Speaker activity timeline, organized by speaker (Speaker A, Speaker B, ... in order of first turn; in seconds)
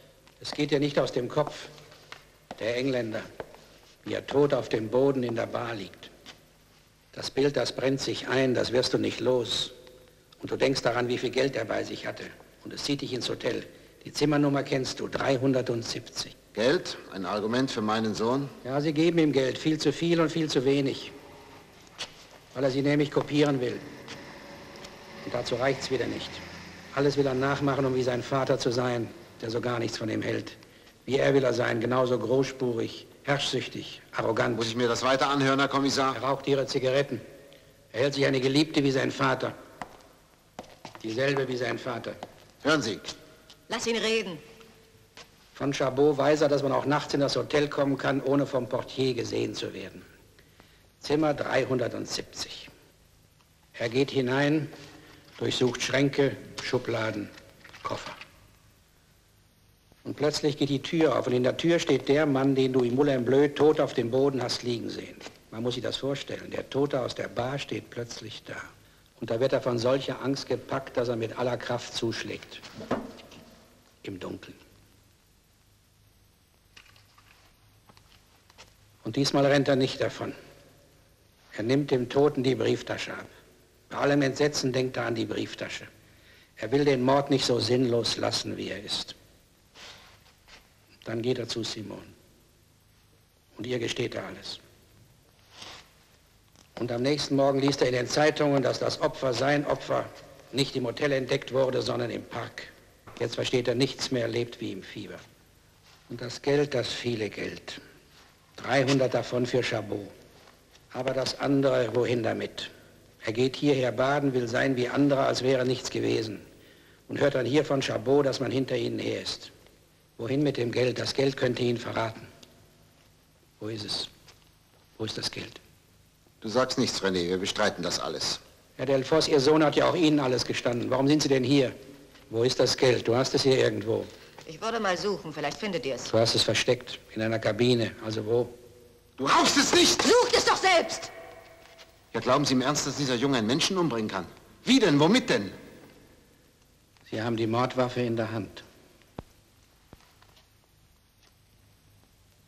Speaker A: 0.4-1.7, 2.6-3.2, 4.0-6.1, 7.1-9.7, 10.4-16.4, 18.6-21.1, 22.5-23.9, 25.2-34.7, 36.1-37.2, 37.9-39.5, 41.0-42.2, 45.5-50.1, 51.0-52.7, 53.8-54.7, 55.4-57.3, 57.8-58.2, 60.0-68.7, 69.2-72.6, 74.0-74.6, 79.0-80.4, 81.5-83.3, 83.9-85.9, 86.6-89.2, 91.0-92.1, 93.5-94.6, 96.8-105.2, 106.1-107.8, 108.6-110.1, 110.9-112.7, 113.2-116.5, 117.1-119.5, 120.2-122.3, 123.6-124.1, 125.0-125.6, 128.8-131.7, 132.3-134.1, 136.1-138.5, 147.1-148.7
Speaker B: 16.6-18.5, 34.6-36.2, 42.6-43.1, 126.4-128.4, 139.2-140.1, 142.1-145.5
Speaker C: 43.7-44.4, 134.5-136.1, 140.0-141.1